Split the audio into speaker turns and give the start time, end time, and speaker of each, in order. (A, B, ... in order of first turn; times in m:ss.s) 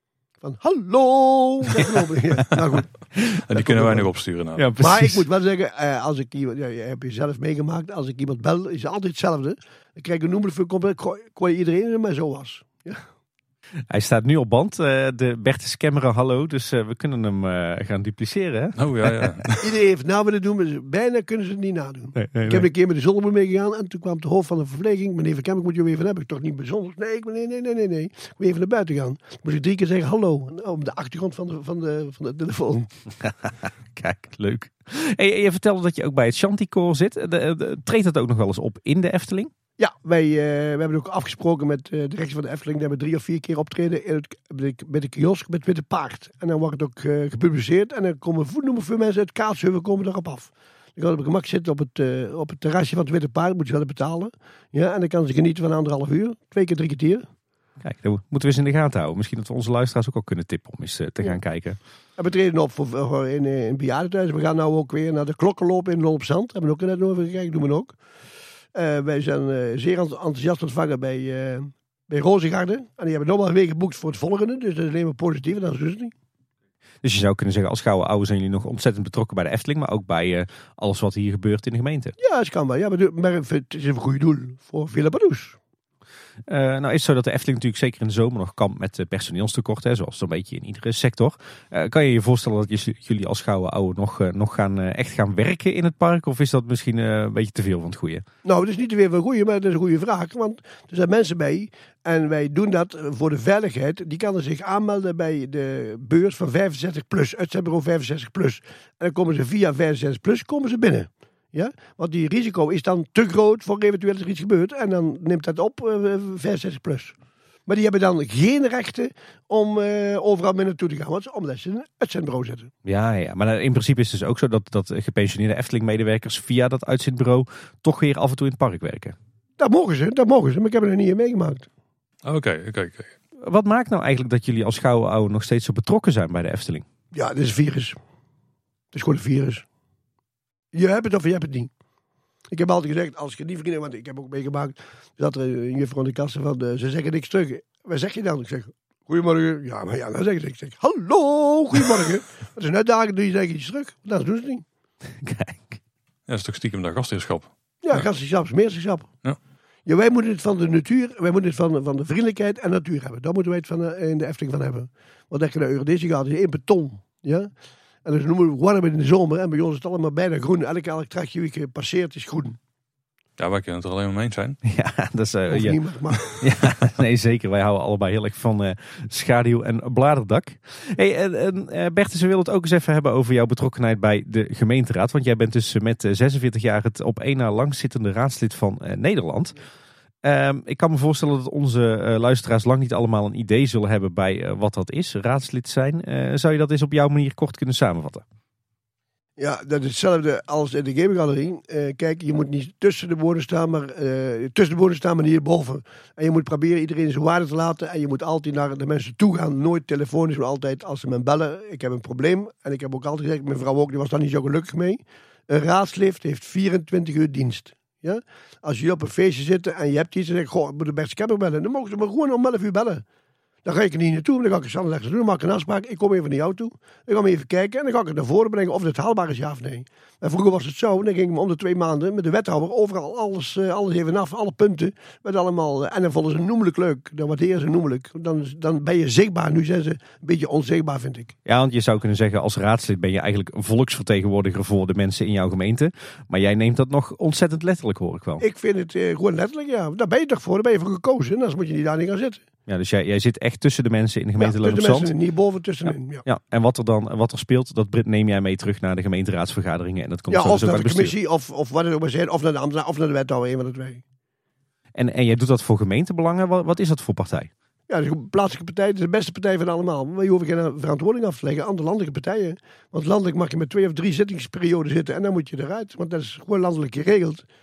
0:00.4-0:02.9 A
0:03.5-0:04.7 B
0:03.5-0:04.1 A
0:04.6-0:05.3 C
0:04.8-0:13.0 A
0:13.9-0:19.3 C
0:18.8-0:19.7 B
0:19.6-0:32.9 A
0:22.2-0:22.7 C
0:33.2-0:39.5 C
0:39.8-0:57.2 A
0:57.8-1:01.8 C
1:02.2-1:07.9 A
1:08.7-1:16.1 A
1:17.0-1:22.2 C
1:22.2-1:25.6 A
1:26.5-1:38.2 C
1:38.4-1:57.2 A
1:57.7-2:02.7 A
2:02.8-2:09.2 C
2:09.6-2:11.7 A
2:12.2-2:13.1 B
2:13.4-2:16.9 C
2:17.1-2:18.0 A
2:18.9-2:19.6 A
2:20.7-2:21.7 A
2:22.5-2:34.6 A
2:35.2-2:35.8 C
2:36.3-2:38.0 B
2:37.8-2:39.1 A
2:39.9-2:47.5 A
2:48.0-2:52.6 A
2:53.4-2:54.6 B
2:54.6-2:55.8 C
2:55.5-2:56.4 A
2:56.3-3:09.5 C
3:10.2-3:18.2 C
3:19.4-3:43.0 A
3:43.6-4:01.3 A
4:01.5-4:08.4 C
4:08.4-4:12.4 A
4:12.7-4:15.1 C
4:14.4-4:16.2 A
4:16.2-4:21.1 C
4:20.3-4:24.0 A
4:25.0-4:27.5 C
4:27.9-4:37.4 A